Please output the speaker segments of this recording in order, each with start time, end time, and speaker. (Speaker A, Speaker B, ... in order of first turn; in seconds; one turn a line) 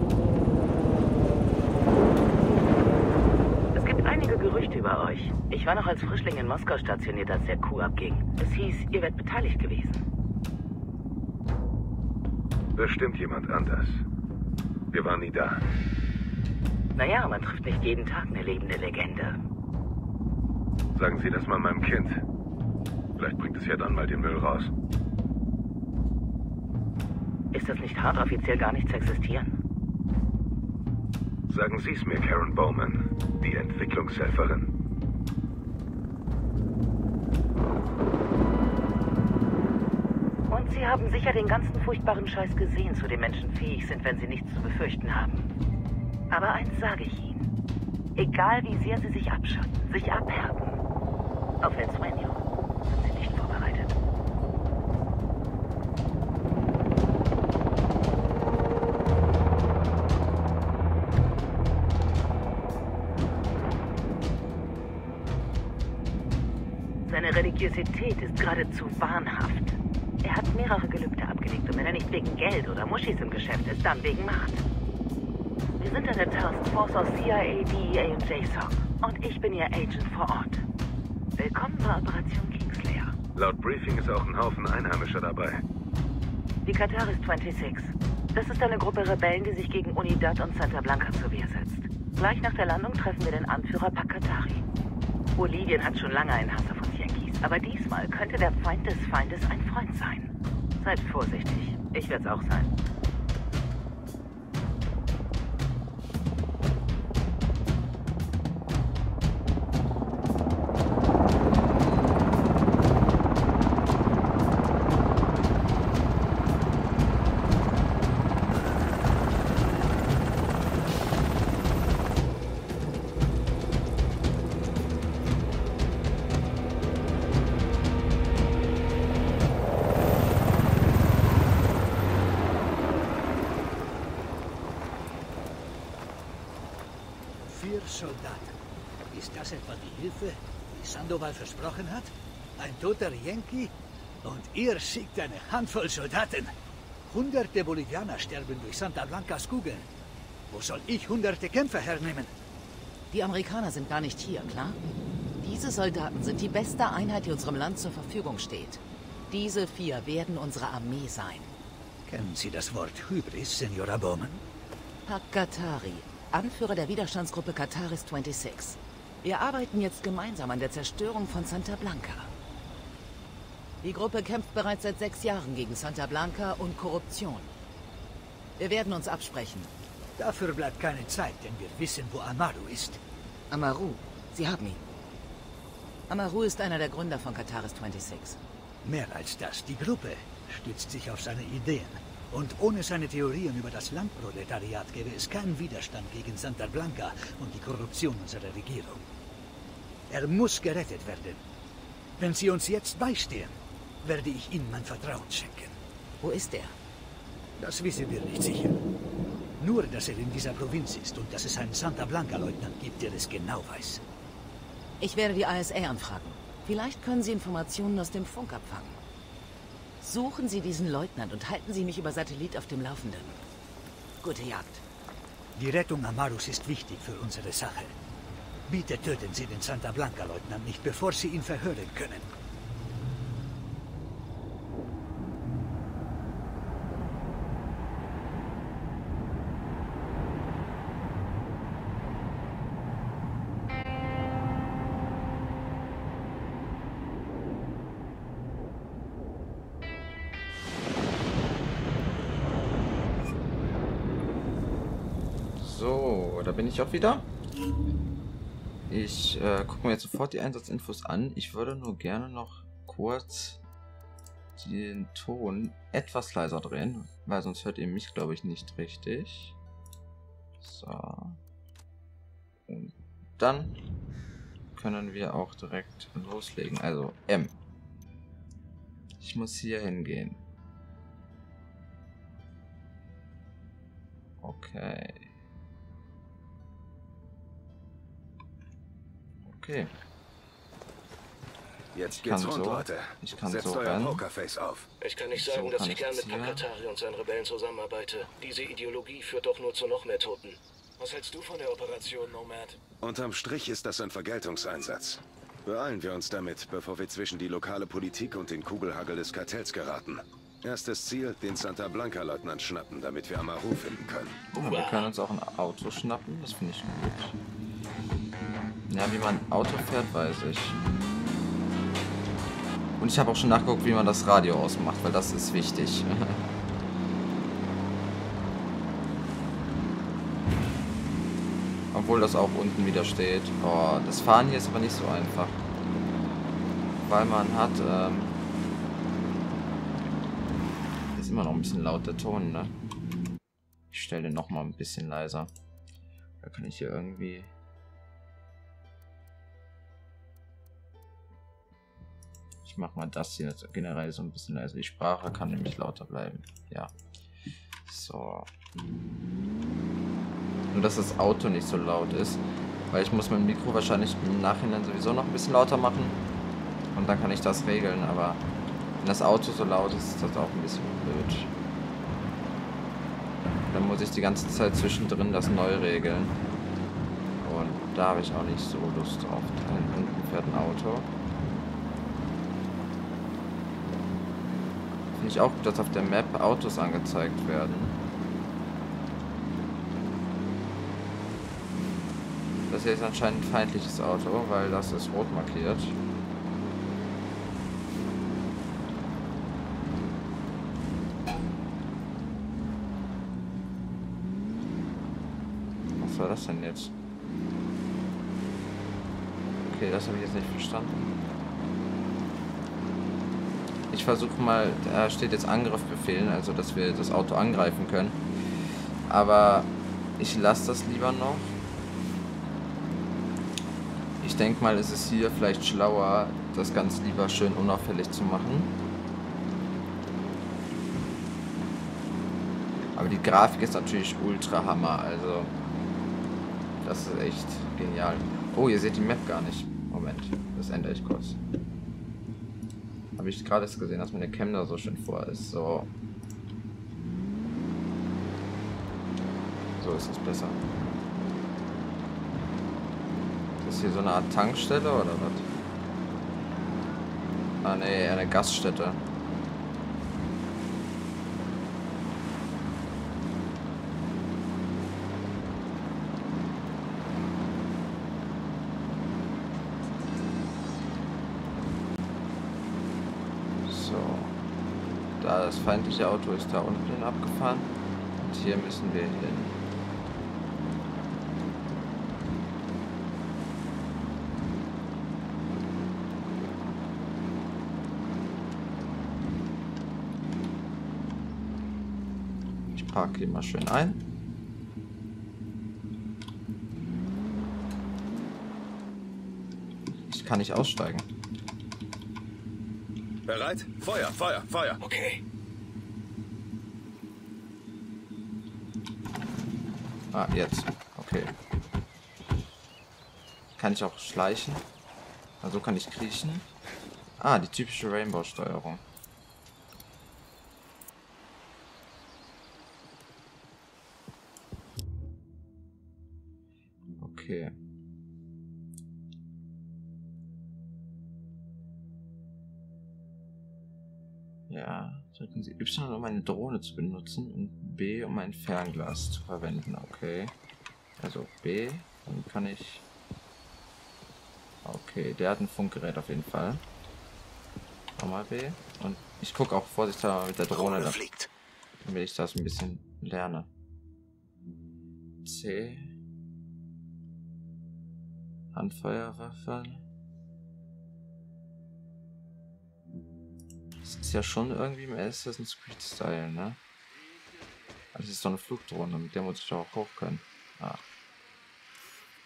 Speaker A: 3.7-10.0
Speaker B: 12.8-14.0
Speaker B: 14.9-15.6
Speaker A: 16.9-19.4
Speaker B: 20.9-22.2
Speaker B: 23.2-24.7
Speaker A: 27.5-29.5
Speaker B: 31.5-34.7
Speaker A: 40.5-45.5
Speaker A: 46.3-47.5
Speaker A: 48.1-50.8
Speaker A: 51.6-53.9
Speaker A: 67.1-74.6
Speaker A: 75.8-80.6
Speaker A: 81.3-83.1
Speaker B: 83.3-85.6
Speaker A: 86.6-94.6
Speaker A: 95.3-102.7
Speaker C: 137.4-138.5
Speaker C: 139.1-146.5
Speaker C: 147.1-149.9
Speaker C: 150.5-152.3
Speaker A: 153.1-154.8
Speaker A: 155.4-161.5
Speaker C: 162.1-164.4
Speaker A: 165.0-172.3
Speaker A: 173.8-177.5
Speaker A: 178.6-179.7
Speaker C: 180.2-183.0
Speaker A: 183.5-184.8
Speaker A: 186.1-188.4
Speaker C: 188.8-199.0
Speaker C: 200.1-201.4
Speaker C: 202.2-205.8
Speaker A: 206.2-206.8
Speaker C: 207.6-208.8
Speaker C: 209.6-214.0
Speaker A: 215.0-219.0
Speaker A: 220.0-223.4
Speaker A: 224.2-224.8
Speaker C: 225.6-227.9
Speaker C: 228.7-232.3
Speaker D: 255.6-257.3
Speaker D: 258.9-263.6
Speaker D: 264.6-269.6
Speaker D: 270.6-271.4
Speaker D: 272.7-273.7
Speaker D: 274.8-277.6
Speaker D: 279.2-280.4
Speaker D: 284.4-285.3
Speaker D: 289.4-289.9
Speaker B: 291.9-294.9
Speaker D: 292.0-294.2
Speaker E: 295.0-302.8
Speaker D: 295.3-296.7
Speaker B: 303.0-314.4
Speaker E: 314.5-315.1
Speaker D: 314.5-317.4
Speaker D: 318.9-320.8
Speaker D: 323.0-326.4
Speaker D: 331.9-335.6
Speaker D: 337.0-338.4
Speaker D: 341.1-342.7
Speaker D: 343.9-345.5
Speaker D: 346.4-347.5
Speaker D: 352.6-356.9
Speaker D: 357.9-358.5
Speaker D: 360.7-366.2
Speaker D: 366.9-368.4
Speaker D: 369.0-371.5
Speaker D: 373.7-376.4
Speaker D: 377.4-381.1
Speaker D: 385.1-388.0
Speaker D: 392.7-396.0
Speaker D: 406.0-406.9
Speaker D: 409.6-411.1
Speaker D: 413.9-418.2
Speaker D: 419.1-421.6
Speaker D: 424.2-428.7
Speaker D: 432.9-435.5
Speaker D: 436.8-441.4
Speaker D: 443.2-445.9
Speaker D: 449.8-450.6
Speaker D: 453.6-455.4
Speaker D: 457.6-459.0
Speaker D: 473.6-474.4
Speaker D: 475.2-479.6
Speaker D: 492.7-494.0
Speaker D: 500.0-501.1
Speaker B: 503.2-504.8
Speaker E: 504.8-505.2
Speaker D: 510.1-511.3
Speaker D: 513.6-514.6
Speaker D: 515.4-516.5
Speaker D: 517.2-518.8
Speaker D: 527.0-527.5
Speaker D: 534.5-540.3
Speaker D: 541.0-542.9
Speaker D: 544.6-546.6
Speaker D: 548.0-551.0
Speaker B: 550.5-551.3
Speaker D: 551.8-553.5
Speaker D: 555.2-555.9
Speaker D: 558.5-559.8
Speaker D: 563.8-566.6
Speaker D: 567.9-570.8